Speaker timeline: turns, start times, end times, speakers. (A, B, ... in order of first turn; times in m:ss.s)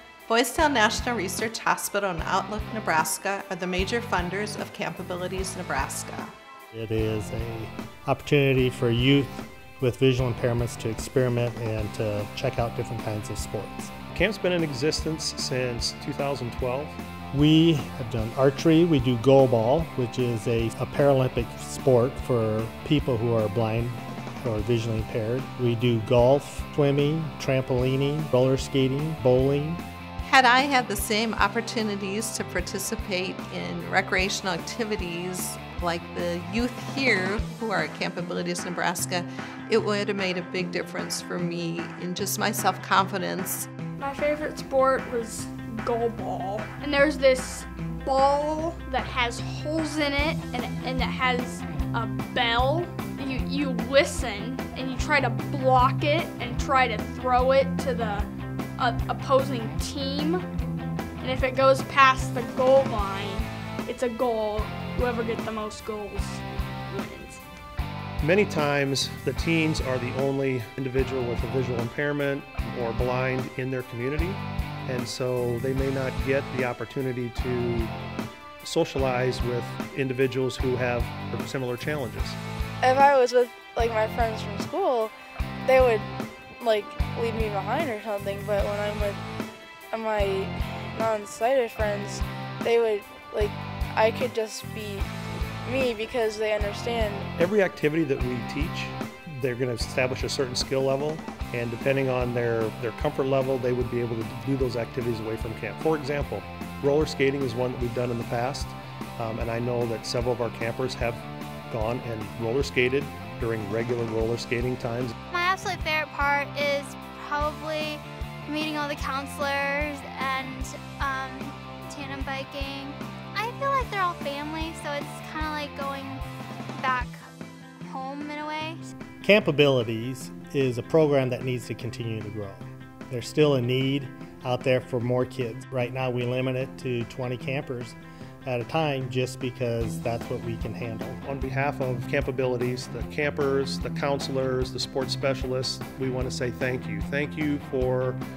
0:00.3-0:06.3 A
0:06.7-0:13.9 B
0:14.1-0:17.0 C
0:17.3-0:29.8 B
0:30.2-0:43.6 A
0:44.0-1:00.4 D
1:01.2-1:07.4 D
1:08.2-1:17.9 C
1:18.6-1:22.4 C
1:22.8-1:25.1 E
1:25.6-1:29.2 E
1:29.9-1:35.1 E
1:35.6-1:37.3 E
1:37.4-1:55.1 C
1:55.3-2:06.2 F
2:06.8-2:07.2 F
2:07.8-2:08.8 F
2:09.2-2:21.2 B
2:21.2-2:28.2 C